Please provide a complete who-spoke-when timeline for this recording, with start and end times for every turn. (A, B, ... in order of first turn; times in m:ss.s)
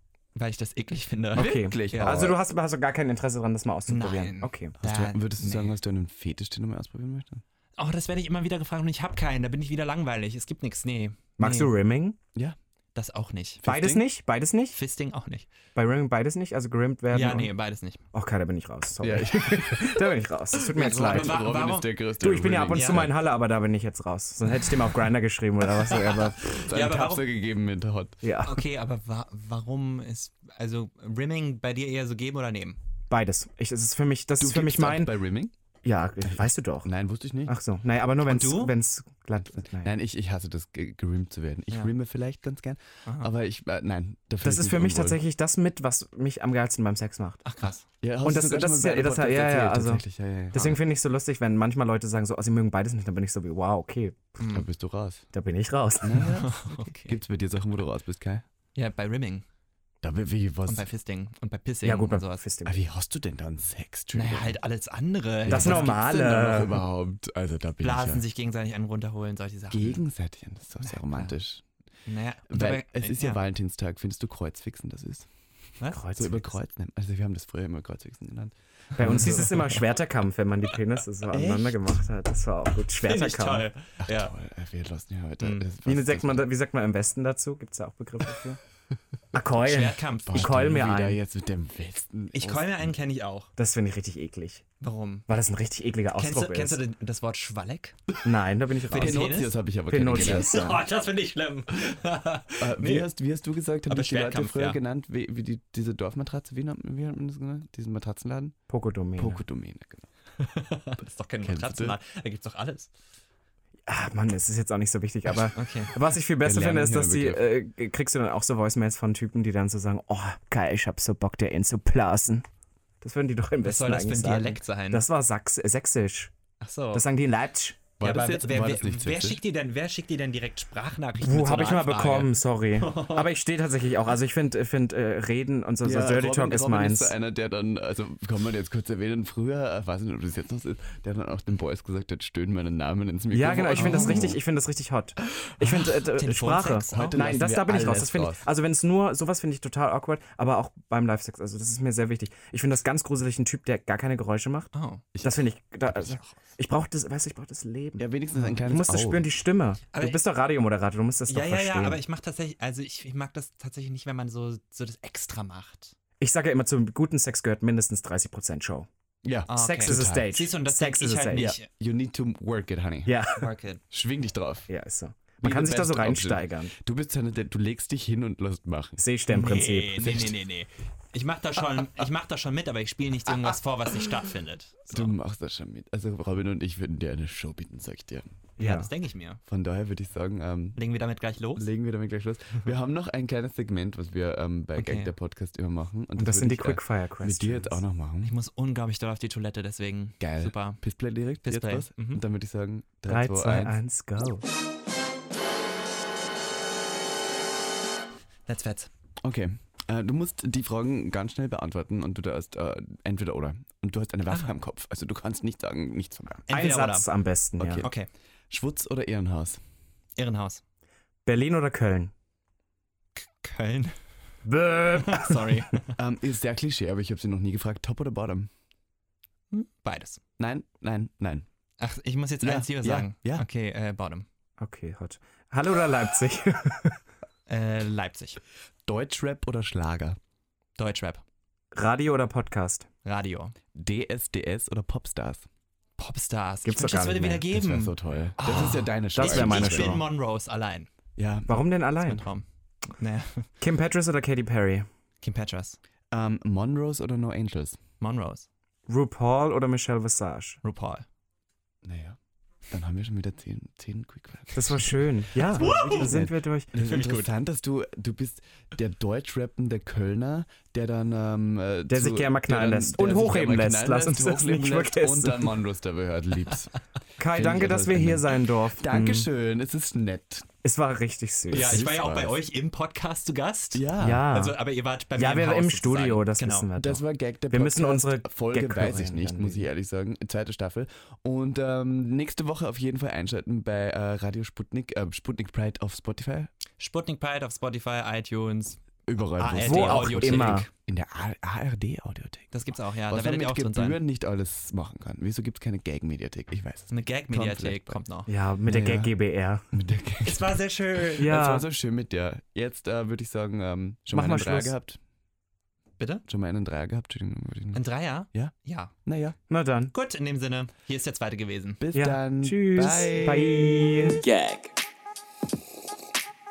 0:00.3-0:02.3 A
0:01.3-0:02.4 B
0:01.3-0:04.7 C
0:03.9-0:05.8 A
0:04.8-0:07.4 B
0:07.8-0:11.7 A
0:11.4-0:12.2 C
0:12.9-0:14.0 A
0:13.6-0:14.8 C
0:14.7-0:15.5 A
0:15.7-0:17.5 C
0:17.1-0:18.0 A
0:18.1-0:21.4 C
0:19.0-0:20.1 B
0:20.6-0:23.1 B
0:20.7-0:21.9 A
0:22.2-0:26.5 C
0:22.7-0:23.0 A
0:25.9-0:27.2 A
0:26.2-0:28.2 B
0:28.2-0:28.6 C
0:28.4-0:32.8 A
0:33.1-0:35.1 C
0:34.4-0:35.5 B
0:35.8-0:36.9 C
0:36.2-0:37.5 B
0:37.5-0:39.9 C
0:38.2-0:38.7 A
0:39.8-0:45.2 B
0:44.4-0:47.5 C
0:47.4-0:47.8 A
0:48.0-0:50.8 B
0:48.2-0:54.4 C
0:54.4-0:54.6 A
0:54.5-0:55.3 B
0:55.3-0:56.4 C
0:56.0-0:58.4 B
0:56.2-0:57.2 A
0:58.7-0:59.4 A
1:00.0-1:00.9 B
1:00.7-1:02.4 A
1:01.8-1:02.8 C
1:02.6-1:04.6 B
1:04.1-1:06.0 A
1:05.4-1:08.2 B
1:05.5-1:06.8 C
1:07.8-1:10.0 A
1:09.7-1:11.6 B
1:10.8-1:11.4 A
1:12.1-1:13.4 A
1:12.5-1:19.8 B
1:15.9-1:16.5 C
1:19.0-1:23.7 C
1:19.0-1:19.8 A
1:21.2-1:21.9 B
1:23.0-1:24.3 A
1:24.0-1:26.4 B
1:25.4-1:25.6 A
1:25.8-1:28.6 C
1:29.3-1:31.2 C
1:29.6-1:30.9 A
1:30.3-1:32.9 B
1:32.3-1:33.5 A
1:33.6-1:34.6 C
1:34.8-1:35.2 A
1:35.3-1:36.8 C
1:36.1-1:38.0 A
1:38.2-1:39.3 C
1:38.9-1:39.6 A
1:38.9-1:40.8 B
1:39.9-1:40.8 C
1:40.1-1:43.1 A
1:42.6-1:48.6 B
1:43.9-1:44.8 A
1:48.7-1:49.4 C
1:49.2-1:50.1 B
1:50.4-1:52.9 A
1:51.4-1:52.0 B
1:53.9-2:02.4 C
1:55.5-1:56.0 A
1:56.4-1:57.4 B
2:03.0-2:06.3 C
2:03.6-2:05.0 A
2:06.6-2:07.0 A
2:06.9-2:07.8 C
2:08.0-2:09.4 B
2:08.0-2:13.3 A
2:11.2-2:17.1 C
2:15.8-2:24.4 B
2:23.3-2:34.7 C
2:23.7-2:24.4 A
2:25.6-2:27.3 A
2:26.9-2:28.4 B
2:34.7-2:35.0 A
2:35.1-2:36.4 B
2:35.2-2:38.0 C
2:38.0-2:39.3 B
2:38.3-2:38.6 A
2:38.6-2:42.0 C
2:39.9-2:40.2 A
2:41.3-2:46.0 A
2:46.2-2:48.9 C
2:49.2-2:50.3 B
2:49.5-2:51.6 A
2:49.5-2:51.5 C
2:51.3-2:53.2 B
2:53.0-2:53.5 C
2:53.3-2:53.8 A
2:53.9-2:54.7 B
2:54.7-2:56.7 C
2:55.4-2:59.0 B
2:59.0-3:00.0 C
2:59.3-3:05.2 A
3:00.0-3:00.4 B
3:04.9-3:08.3 B
3:08.6-3:09.4 A
3:08.6-3:08.9 C
3:09.4-3:10.8 B
3:10.8-3:11.6 A
3:11.6-3:18.3 B
3:14.8-3:15.1 A
3:16.2-3:17.8 C
3:18.2-3:20.8 A
3:20.2-3:23.8 B
3:21.4-3:22.2 A
3:23.1-3:24.4 C
3:28.5-3:28.9 A
3:29.2-3:36.4 B
3:36.5-3:37.1 A
3:36.5-3:37.8 C
3:37.6-3:37.9 B
3:37.8-3:38.1 A
3:38.5-3:39.6 B
3:40.2-3:40.6 A
3:41.2-3:42.1 C
3:43.2-3:44.0 A
3:44.4-3:45.6 C
3:45.0-3:45.9 A
3:46.0-3:48.5 B
3:49.5-3:50.2 A
3:50.4-3:51.4 B
3:51.8-3:54.2 A
3:52.4-3:53.4 B
3:54.6-3:57.0 C
3:57.5-3:58.4 A
3:58.8-4:00.2 B
4:00.8-4:01.2 A
4:01.7-4:02.9 C
4:03.0-4:03.5 A
4:03.7-4:05.5 B
4:06.0-4:10.9 A
4:06.6-4:07.4 C
4:07.5-4:10.0 B
4:08.4-4:10.0 C
4:11.2-4:11.6 B
4:11.5-4:12.3 C
4:12.0-4:13.5 A
4:13.6-4:14.9 C
4:15.2-4:15.8 A
4:16.1-4:17.8 B
4:18.0-4:18.5 A
4:18.9-4:20.6 C
4:20.6-4:21.0 A
4:21.8-4:22.2 B
4:22.7-4:36.8 B
4:24.5-4:26.7 C
4:25.5-4:26.2 A
4:26.8-4:27.3 A
4:31.9-4:35.6 C
4:37.2-4:39.3 C
4:37.3-4:40.5 B
4:40.6-4:41.9 C
4:41.5-4:42.4 B
4:41.5-4:46.7 A
4:43.7-4:44.2 B
4:44.0-4:44.6 C
4:45.2-4:49.7 C
4:46.8-4:56.5 B
4:56.8-5:00.7 A
4:59.1-5:08.0 B
4:59.6-5:00.7 C
5:02.5-5:04.0 A
5:06.9-5:08.3 A
5:08.3-5:09.7 C
5:08.7-5:09.1 B
5:09.7-5:10.6 B
5:10.2-5:11.3 A
5:11.2-5:15.0 B
5:11.2-5:11.6 C
5:14.1-5:14.7 C
5:16.0-5:16.2 A
5:16.3-5:18.5 B
5:17.7-5:19.0 A
5:19.0-5:19.4 B
5:19.5-5:19.9 C
5:19.9-5:21.8 A
5:21.8-5:23.7 B
5:21.9-5:24.2 C
5:24.2-5:24.5 B